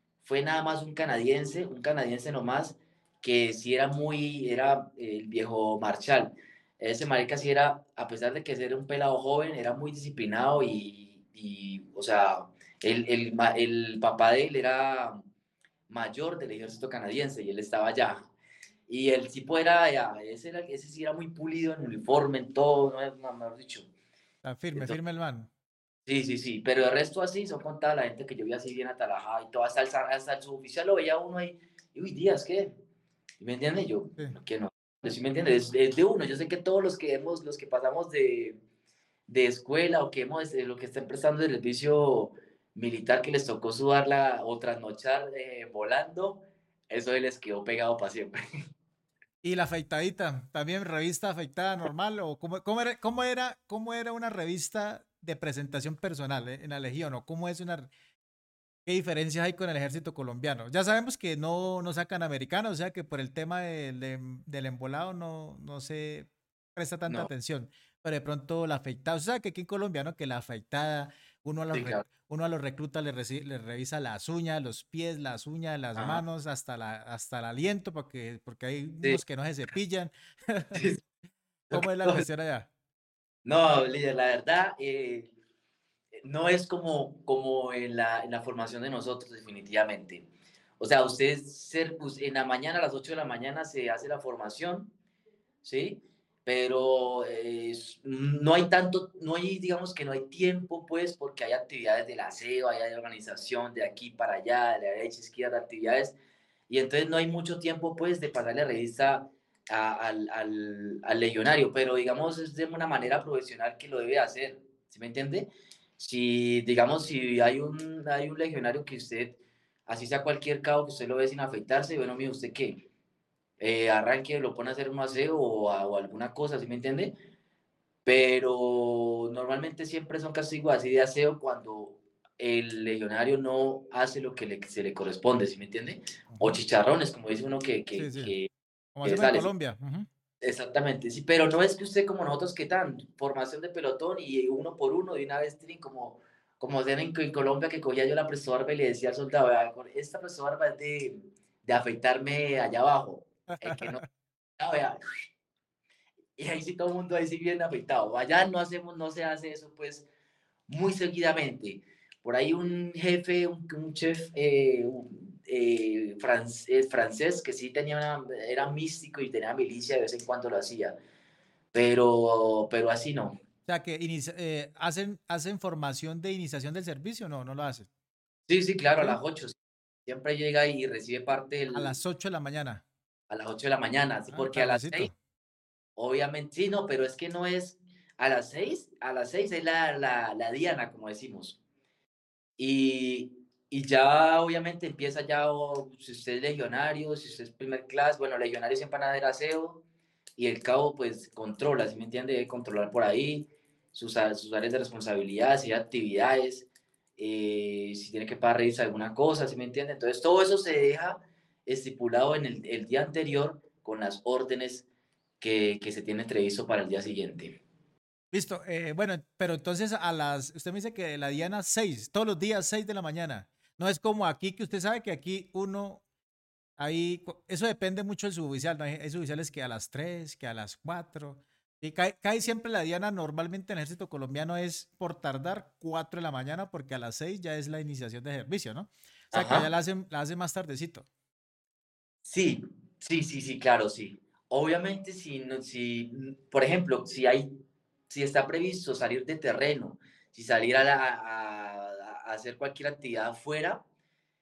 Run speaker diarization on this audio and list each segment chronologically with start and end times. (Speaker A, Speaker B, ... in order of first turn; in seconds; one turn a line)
Speaker A: 0.2-15.2
Speaker A: 15.9-18.3
Speaker A: 18.9-23.9
Speaker B: 24.4-25.5
Speaker A: 24.7-25.0
Speaker A: 26.1-32.7
Speaker A: 33.4-38.6
Speaker A: 39.3-48.4
Speaker B: 49.4-57.9
Speaker B: 58.9-80.9
Speaker A: 71.7-72.1
Speaker A: 76.0-76.2
Speaker A: 80.7-81.0
Speaker A: 81.7-82.3
Speaker B: 81.7-82.7
Speaker A: 83.4-85.3
Speaker A: 86.2-90.3
Speaker A: 90.8-94.9
Speaker A: 95.6-106.2
Speaker A: 106.7-122.8
Speaker A: 123.6-127.1
Speaker A: 128.1-138.5
Speaker B: 136.3-136.6
Speaker B: 137.9-138.3
Speaker B: 138.9-140.1
Speaker A: 139.0-139.5
Speaker A: 140.4-154.0
Speaker B: 153.5-154.1
Speaker A: 154.6-155.0
Speaker A: 156.4-160.1
Speaker A: 160.7-170.9
Speaker A: 171.7-173.4
Speaker B: 173.7-177.9
Speaker A: 178.5-182.0
Speaker B: 181.7-182.8
Speaker A: 183.3-185.1
Speaker B: 184.3-185.2
Speaker A: 185.9-191.6
Speaker A: 192.6-199.8
Speaker A: 200.4-214.9
Speaker A: 215.4-217.6
Speaker B: 218.3-226.0
Speaker B: 226.8-241.1
Speaker A: 239.3-239.7
Speaker A: 242.2-247.5
Speaker A: 248.1-253.8